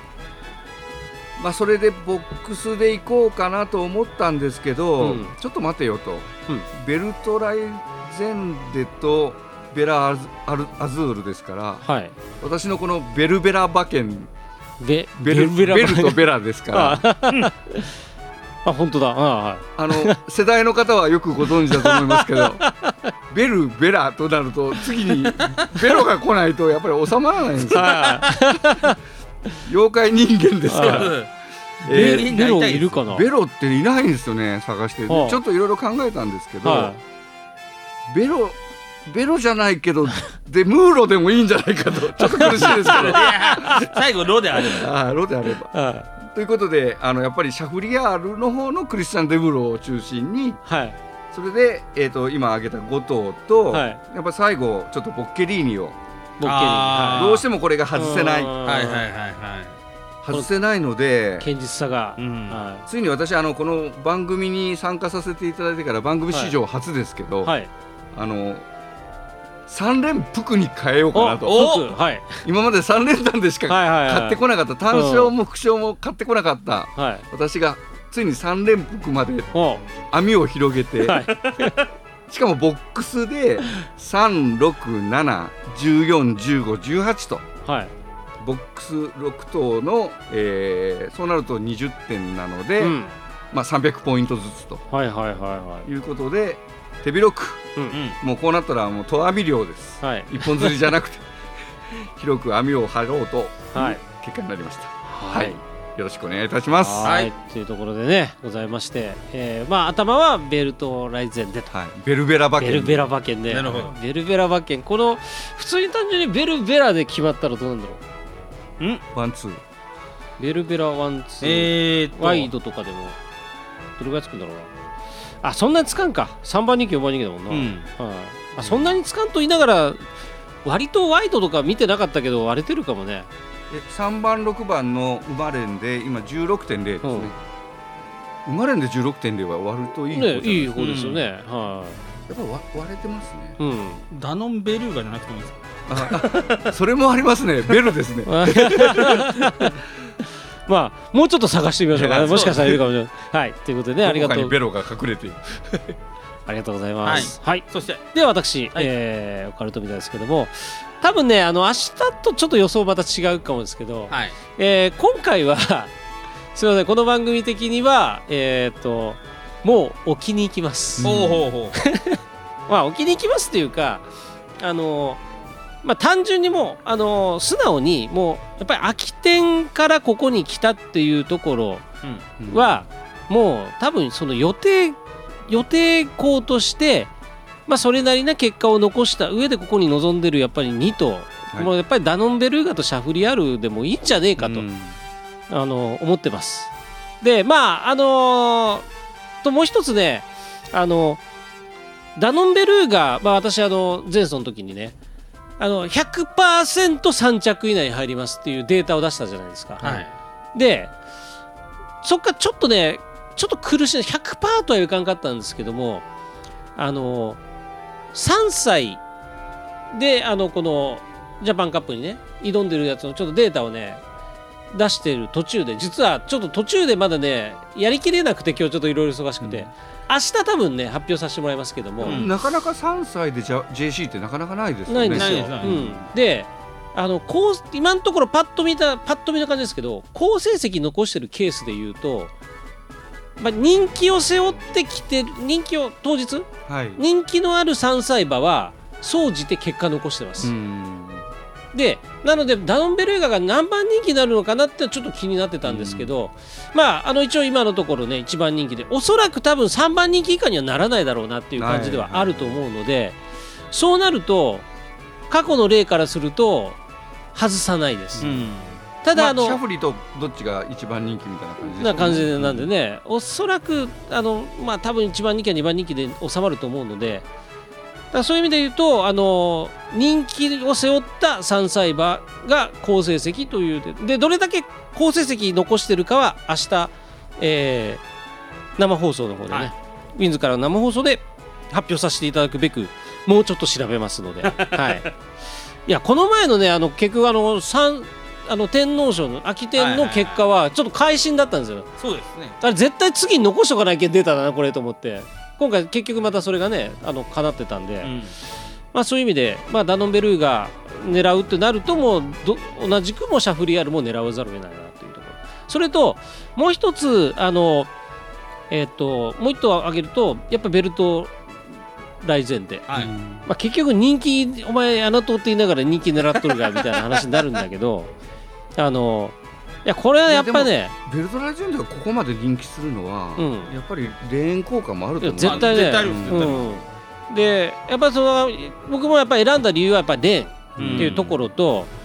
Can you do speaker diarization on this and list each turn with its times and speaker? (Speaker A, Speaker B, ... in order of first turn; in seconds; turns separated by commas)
Speaker A: 1.4-11.8, Speaker B: 5.0-5.3, Speaker B: 11.8-12.1, Speaker A: 12.4-14.3, Speaker B: 14.8-17.9, Speaker A: 15.2-17.0, Speaker B: 18.6-20.2, Speaker A: 19.8-22.6, Speaker B: 21.7-23.1, Speaker A: 23.3-28.2, Speaker B: 27.6-29.0, Speaker C: 27.7-28.3, Speaker A: 29.6-31.2, Speaker B: 30.7-31.1, Speaker C: 30.7-31.3, Speaker A: 31.8-32.3, Speaker C: 31.8-33.0, Speaker B: 31.9-33.3, Speaker A: 33.0-36.9, Speaker B: 35.1-35.4, Speaker B: 36.6-37.0, Speaker A: 38.1-43.9, Speaker B: 42.2-43.9, Speaker C: 42.5-44.9, Speaker A: 44.5-50.6, Speaker B: 45.7-46.1, Speaker B: 50.6-51.0, Speaker A: 51.3-56.0, Speaker B: 53.7-54.0, Speaker B: 56.4-57.4, Speaker C: 56.4-57.4, Speaker A: 57.1-58.6, Speaker B: 57.9-59.0, Speaker C: 58.6-59.8, Speaker A: 60.2-61.5, Speaker B: 61.4-62.9, Speaker C: 62.2-62.6, Speaker A: 62.9-67.5, Speaker A: 68.1-68.7, Speaker A: 69.7-71.6, Speaker B: 71.1-72.4, Speaker C: 71.5-71.9, Speaker A: 72.4-79.5, Speaker B: 73.7-74.4, Speaker B: 74.9-75.3, Speaker B: 77.0-77.2, Speaker B: 79.5-79.8, Speaker A: 80.1-81.3, Speaker B: 81.0-81.7, Speaker A: 82.3-87.4, Speaker B: 87.7-87.9, Speaker A: 88.4-93.0, Speaker B: 92.8-93.1, Speaker A: 93.5-94.8, Speaker B: 94.9-95.9, Speaker A: 95.8-101.2, Speaker C: 97.9-98.2, Speaker B: 100.0-100.8, Speaker A: 101.9-107.1, Speaker B: 103.7-104.0, Speaker B: 105.1-105.6, Speaker B: 106.8-111.7, Speaker C: 107.0-107.3, Speaker A: 111.7-113.1, Speaker B: 112.6-118.0, Speaker C: 113.5-113.9, Speaker A: 119.1-119.6, Speaker B: 120.4-123.2, Speaker C: 121.4-122.5, Speaker B: 124.0-124.7, Speaker B: 125.4-130.1, Speaker C: 127.5-127.9, Speaker A: 128.6-128.9, Speaker B: 130.6-133.3, Speaker A: 133.7-137.3, Speaker B: 137.0-137.3, Speaker A: 138.4-140.9, Speaker B: 140.1-142.0, Speaker C: 140.8-141.2, Speaker A: 142.3-143.6, Speaker B: 143.6-144.0, Speaker C: 144.1-146.7, Speaker A: 145.9-149.3, Speaker B: 148.2-149.7, Speaker B: 150.7-154.5, Speaker A: 151.9-152.8, Speaker C: 152.3-152.6, Speaker A: 154.0-155.9, Speaker B: 156.5-165.9, Speaker C: 157.0-158.0, Speaker C: 164.1-164.3, Speaker B: 166.5-171.1, Speaker A: 171.0-171.4, Speaker C: 171.0-171.8, Speaker B: 171.7-174.1, Speaker B: 174.6-175.2, Speaker B: 175.8-181.8, Speaker A: 182.4-182.8, Speaker B: 182.5-187.1, Speaker B: 187.7-194.6, Speaker A: 194.4-195.0, Speaker B: 195.5-198.9, Speaker B: 199.4-201.2, Speaker B: 202.2-204.9, Speaker B: 205.6-210.9, Speaker C: 209.8-210.1, Speaker B: 212.0-216.0, Speaker B: 216.8-217.4, Speaker B: 218.1-219.0, Speaker B: 219.9-224.0, Speaker B: 224.7-232.2, Speaker A: 229.4-229.7, Speaker C: 232.0-232.3, Speaker A: 232.0-236.1, Speaker B: 234.9-242.3, Speaker C: 235.1-235.8, Speaker B: 243.4-250.5, Speaker A: 246.7-247.0, Speaker A: 250.4-251.2, Speaker B: 251.7-263.2, Speaker A: 255.6-256.1, Speaker A: 261.6-262.6, Speaker B: 263.7-264.6, Speaker B: 265.3-266.8, Speaker B: 267.3-268.3, Speaker A: 268.2-268.5, Speaker C: 268.2-268.8, Speaker B: 269.0-269.6, Speaker A: 269.1-272.7, Speaker B: 271.7-277.2, Speaker B: 278.1-288.0, Speaker B: 288.8-295.1, Speaker C: 294.5-295.1, Speaker B: 295.9-301.9, Speaker C: 299.8-300.4, Speaker C: 302.0-302.6, Speaker B: 302.6-308.1, Speaker C: 308.0-308.3, Speaker B: 308.9-317.9, Speaker B: 318.7-321.5, Speaker B: 322.2-322.9, Speaker C: 322.9-323.1, Speaker A: 322.9-323.5, Speaker B: 323.4-328.1, Speaker B: 328.8-330.9, Speaker A: 330.3-336.7, Speaker B: 333.4-333.7, Speaker B: 335.2-341.9, Speaker C: 335.4-336.6, Speaker A: 340.8-341.3, Speaker C: 340.8-341.3